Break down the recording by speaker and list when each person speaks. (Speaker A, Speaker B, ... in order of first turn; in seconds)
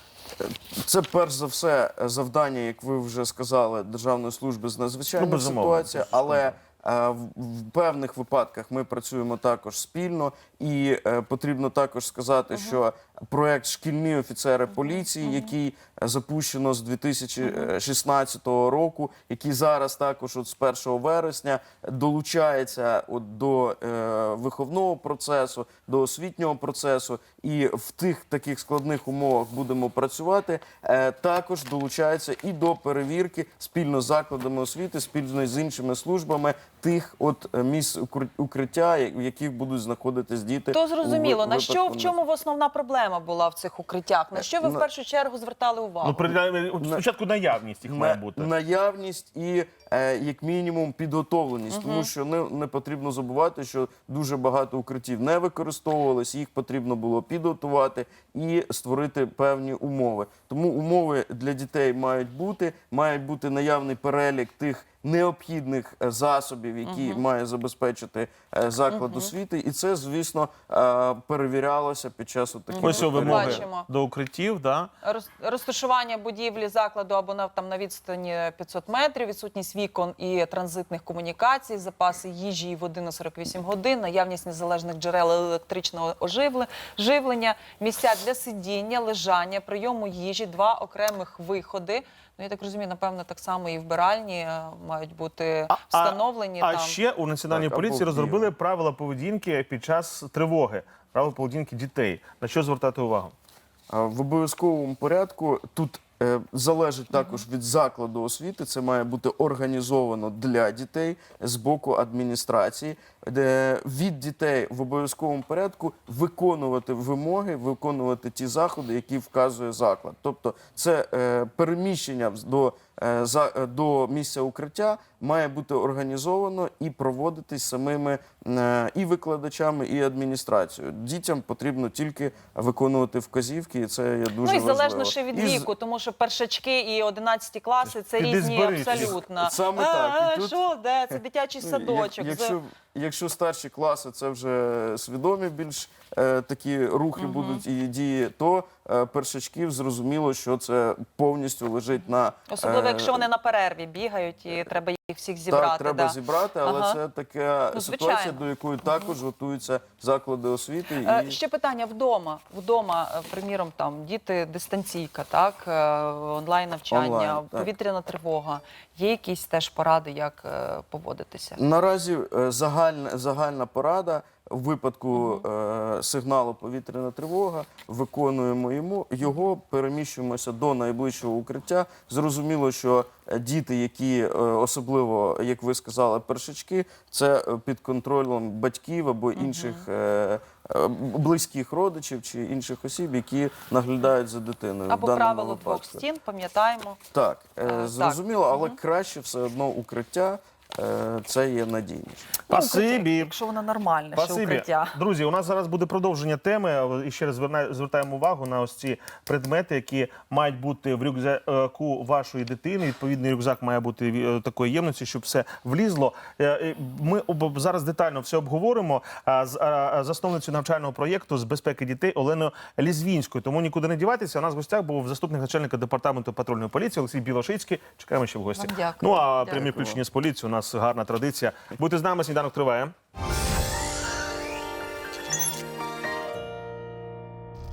Speaker A: 0.4-42.1, 44.3-44.8, 47.8-73.6, 97.5-98.5, 103.9-135.7, 138.8-153.2, 155.5-161.4, 166.9-167.7, 171.6-196.0, 197.1-202.3
Speaker B: 5.2-6.5, 46.0-48.5, 72.8-74.9, 95.7-103.3, 137.9-139.2, 202.5-203.3, 204.1-232.9
Speaker C: 12.5-12.8, 14.7-15.5, 17.4-17.7, 40.7-46.3, 51.7-52.1, 66.8-67.2, 68.9-69.3, 72.8-73.9, 75.0-97.0, 107.1-107.4, 134.4-142.6, 147.2-147.6, 152.5-157.0, 157.7-159.1, 161.0-171.6, 175.1-175.4, 189.3-189.8, 194.9-197.0, 197.6-198.8, 202.5-205.0, 228.5-229.9